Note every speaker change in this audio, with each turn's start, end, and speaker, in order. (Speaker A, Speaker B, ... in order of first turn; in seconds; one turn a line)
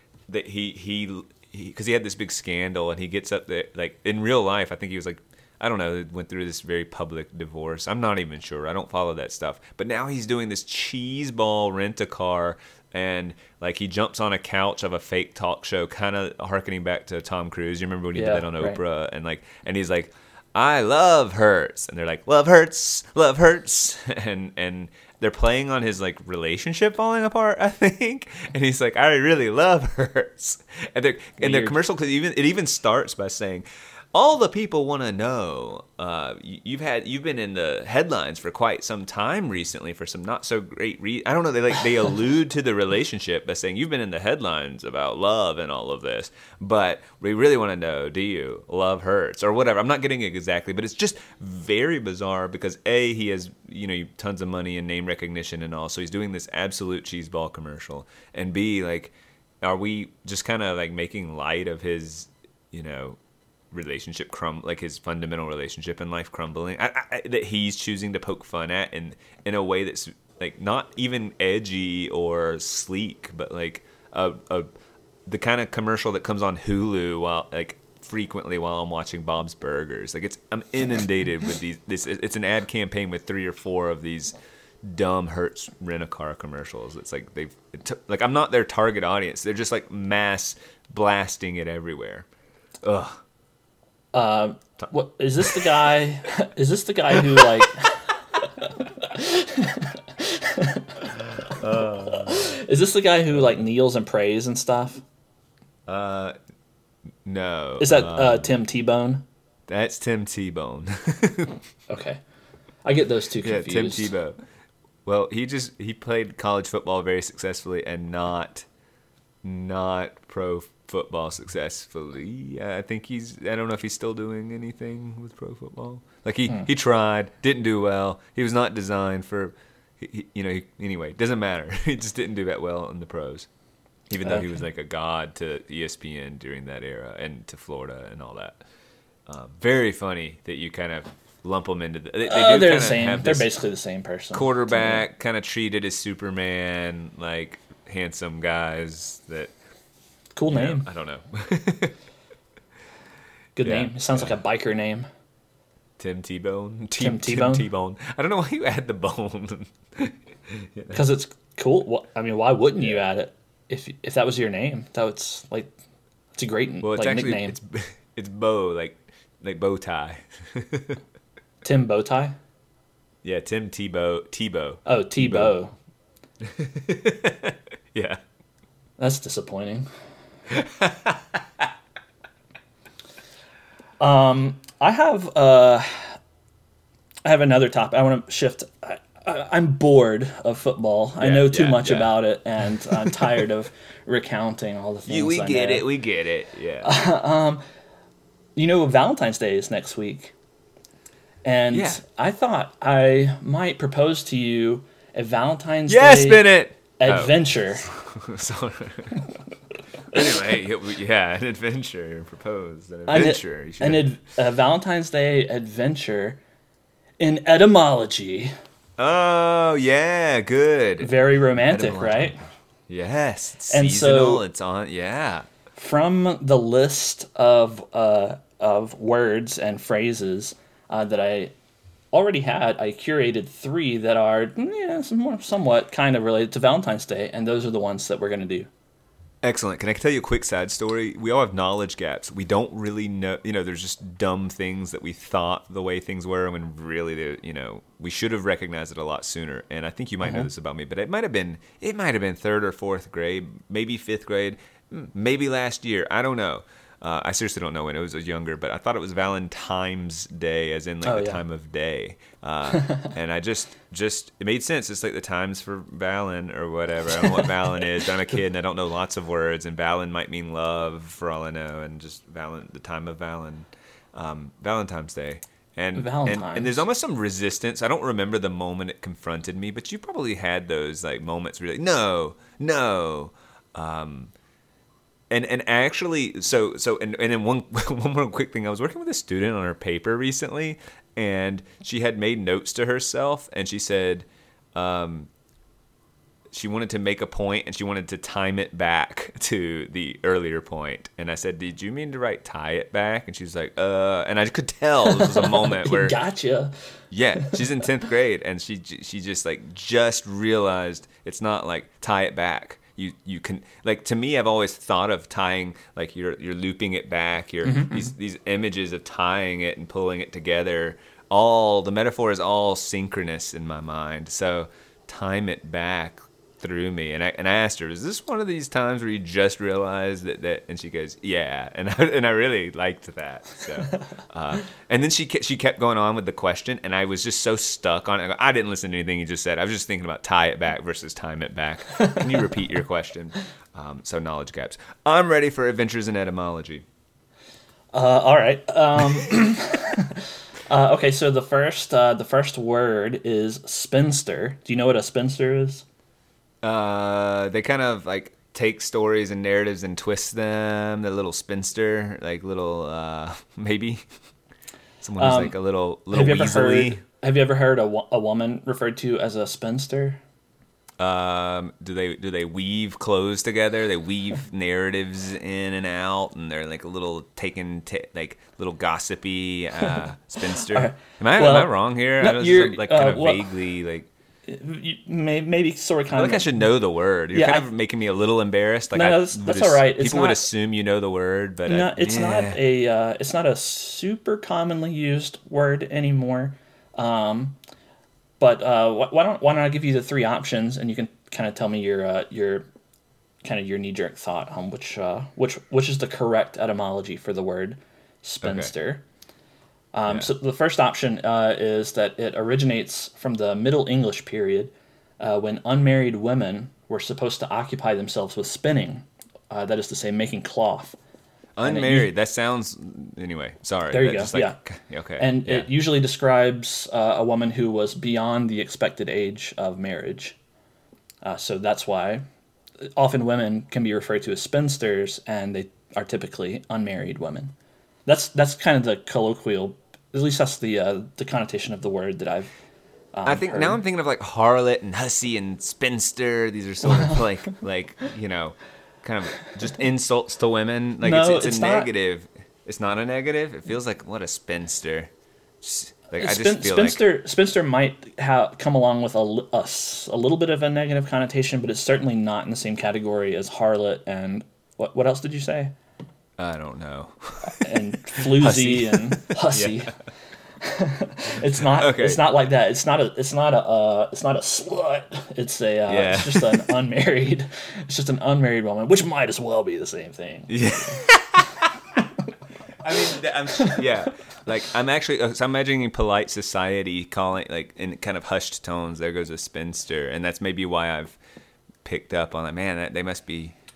Speaker A: 0.3-63.2
Speaker B: 18.1-18.8
Speaker B: 31.4-31.8
Speaker A: 63.7-74.7
Speaker A: 75.2-92.3
Speaker A: 92.8-93.2
Speaker B: 94.1-105.0
Speaker A: 95.4-95.8
Speaker A: 97.1-97.8
Speaker A: 101.1-102.6
Speaker A: 105.9-106.3
Speaker A: 107.2-108.5
Speaker B: 107.8-109.2
Speaker A: 109.7-111.6
Speaker B: 111.9-112.2
Speaker B: 112.8-114.1
Speaker A: 113.4-114.4
Speaker A: 115.0-118.7
Speaker A: 119.4-133.5
Speaker A: 134.1-138.6
Speaker A: 139.3-143.5
Speaker B: 142.3-145.0
Speaker A: 144.3-149.5
Speaker B: 150.3-150.8
Speaker A: 150.5-151.9
Speaker B: 153.6-155.1
Speaker A: 153.6-154.3
Speaker A: 156.0-161.0
Speaker B: 157.0-157.7
Speaker B: 160.9-165.7
Speaker B: 166.3-167.5
Speaker A: 166.8-171.0
Speaker B: 171.6-172.4
Speaker A: 173.2-175.5
Speaker B: 174.8-175.7
Speaker A: 176.4-178.2
Speaker B: 179.0-179.9
Speaker A: 180.5-181.7
Speaker B: 184.0-186.2
Speaker B: 187.2-195.8
Speaker A: 191.2-192.2
Speaker A: 192.9-193.4
Speaker A: 195.1-196.9
Speaker B: 196.8-197.6
Speaker B: 198.6-200.3
Speaker B: 201.4-206.5
Speaker A: 201.7-202.0
Speaker A: 205.9-209.2
Speaker B: 207.0-207.9
Speaker A: 210.1-214.1
Speaker B: 210.1-210.4
Speaker B: 213.1-216.4
Speaker B: 217.2-218.5
Speaker A: 219.0-225.5
Speaker B: 221.0-222.4
Speaker B: 223.7-224.4
Speaker B: 225.8-231.5
Speaker B: 232.1-238.7
Speaker A: 239.4-284.3
Speaker B: 261.0-261.4
Speaker B: 262.7-263.1
Speaker B: 267.1-267.5
Speaker B: 275.9-276.8
Speaker A: 285.3-295.3
Speaker A: 296.5-306.2
Speaker B: 305.1-306.7
Speaker A: 307.1-346.8
Speaker B: 317.6-318.1
Speaker B: 341.9-342.3
Speaker B: 347.9-355.8
Speaker A: 356.6-364.1
Speaker A: 365.0-367.0
Speaker B: 365.2-365.6
Speaker B: 366.1-370.2
Speaker A: 371.0-384.1
Speaker B: 379.8-383.5
Speaker B: 384.5-386.6
Speaker A: 386.1-392.6
Speaker B: 387.3-387.7
Speaker B: 388.9-390.4
Speaker B: 391.6-397.6
Speaker B: 398.4-402.6
Speaker B: 403.4-409.0
Speaker A: 408.4-408.7
Speaker B: 409.9-421.0
Speaker A: 421.6-425.7
Speaker B: 421.6-422.1
Speaker B: 423.9-424.6
Speaker B: 425.2-430.4
Speaker B: 431.2-432.2
Speaker B: 432.8-437.5
Speaker B: 438.1-442.5
Speaker B: 443.1-443.8
Speaker A: 443.2-455.1
Speaker B: 446.8-447.6
Speaker B: 451.0-451.9
Speaker A: 455.6-457.1
Speaker B: 456.2-465.7
Speaker A: 466.4-469.9
Speaker B: 467.5-469.9
Speaker B: 470.6-481.1
Speaker A: 471.7-472.3
Speaker A: 475.9-476.8
Speaker A: 480.5-482.0
Speaker A: 482.8-491.2
Speaker B: 482.9-484.1
Speaker A: 491.8-493.6